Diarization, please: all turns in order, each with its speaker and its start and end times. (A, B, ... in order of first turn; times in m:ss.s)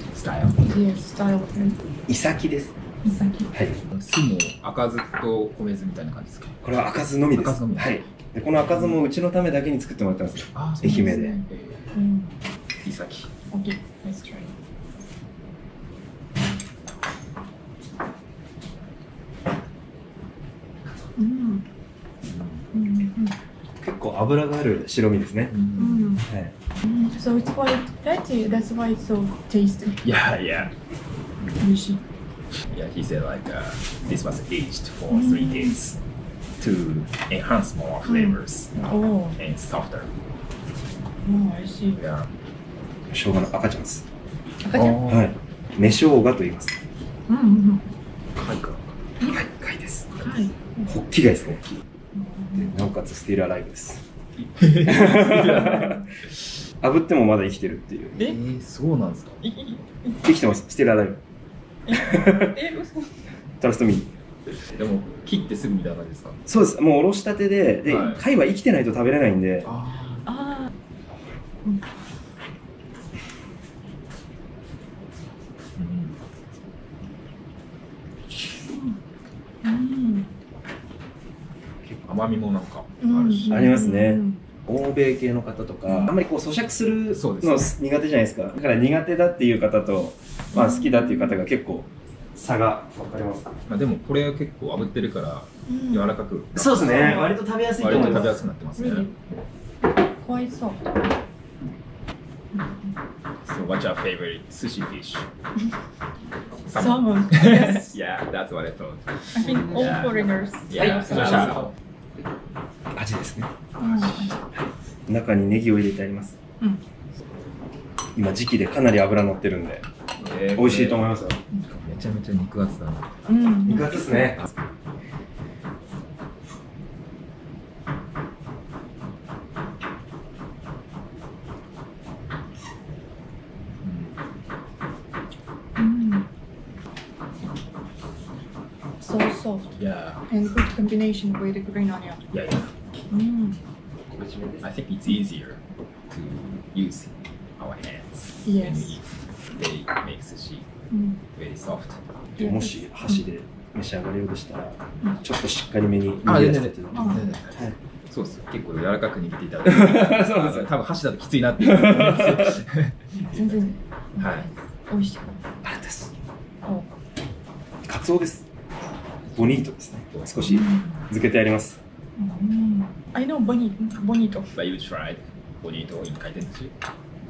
0:00.1-0:00.6 A
0:00.6-0:01.8 B
0:02.1-0:02.7 C
0:03.0-0:03.5 B
0:03.5-0:03.8 C
0:03.9-0:06.6 A
0:06.6-0:11.4 C
0:07.3-0:08.0 A
0:08.6-0:09.0 A
0:10.5-0:11.9 A
0:10.8-0:11.4 B
0:11.9-0:12.3 B
0:12.8-0:13.3 A
0:13.5-0:14.5 B
0:21.2-0:21.6 B
0:22.2-0:22.6 A
0:22.7-0:23.3 B
0:23.8-0:26.5 C
0:25.5-0:26.0 A
0:25.8-0:26.2 B
0:26.8-0:30.0 B
0:30.0-0:30.7 A
0:31.6-0:32.0 B
0:32.7-0:36.0 A
0:35.1-0:35.7 B
0:36.6-0:38.8 A
0:38.0-0:39.4 B
0:39.4-0:40.1 A
0:41.2-0:42.0 B
0:42.0-0:42.3 A
0:43.1-0:44.0 C
0:44.6-0:45.0 B
0:44.8-0:45.2 A
0:44.8-0:46.7 C
0:47.3-0:47.8 B
0:48.4-0:48.9 A
0:49.2-0:50.3 C
0:50.2-0:50.9 B
0:50.8-0:51.6 C
0:52.1-0:52.8 B
0:52.5-0:54.0 C
0:54.4-0:56.0 A
0:54.8-0:56.0 C
0:56.8-0:58.3 C
0:58.2-0:59.4 A
0:59.4-1:00.2 B
1:00.2-1:01.2 C
1:01.8-1:03.1 B
1:01.9-1:02.4 C
1:03.6-1:04.1 C
1:04.8-1:06.3 A
1:06.4-1:09.7 C
1:07.8-1:08.2 A
1:09.6-1:10.2 A
1:10.2-1:10.7 B
1:15.8-1:16.2 A
1:18.7-1:19.0 B
1:19.6-1:20.3 B
1:22.0-1:23.6 A
1:23.0-1:24.4 B
1:23.4-1:33.5 C
1:27.1-1:27.7 A
1:30.5-1:31.3 B
1:33.7-1:39.1 A
1:35.7-1:36.1 B
1:36.5-1:38.4 C
1:38.8-1:39.1 B
1:40.1-1:40.9 B
1:42.5-1:42.9 B
1:43.4-1:45.2 A
1:46.6-1:51.7 A
1:46.7-1:48.0 B
1:49.3-1:50.7 B
1:51.0-1:51.3 C
1:52.9-1:53.5 C
1:53.8-1:54.4 B
1:53.8-1:54.3 A
1:55.1-1:56.4 C
1:58.1-1:59.8 C
2:00.2-2:03.3 A
2:00.5-2:01.4 C
2:03.3-2:04.3 B
2:03.6-2:04.4 C
2:13.8-2:14.1 A
2:15.8-2:16.2 B
2:19.0-2:19.7 B
2:19.8-2:20.2 A
2:20.3-2:22.2 B
2:22.3-2:22.8 A
2:23.1-2:23.6 B
2:24.1-2:24.6 C
2:24.6-2:25.6 A
2:26.1-2:30.6 A
2:28.4-2:29.0 B
2:30.9-2:31.2 B
2:31.4-2:32.0 A
2:32.4-2:37.7 C
2:32.4-2:32.8 B
2:36.2-2:43.5 A
2:36.9-2:37.2 B
2:39.6-2:40.7 C
2:43.3-2:45.4 B
2:44.2-2:44.5 A
2:45.6-2:46.1 C
2:46.6-2:46.9 B
2:47.8-2:48.4 C
2:49.3-2:51.8 C
2:50.5-2:50.9 B
2:52.2-2:54.5 B
2:54.5-2:56.7 A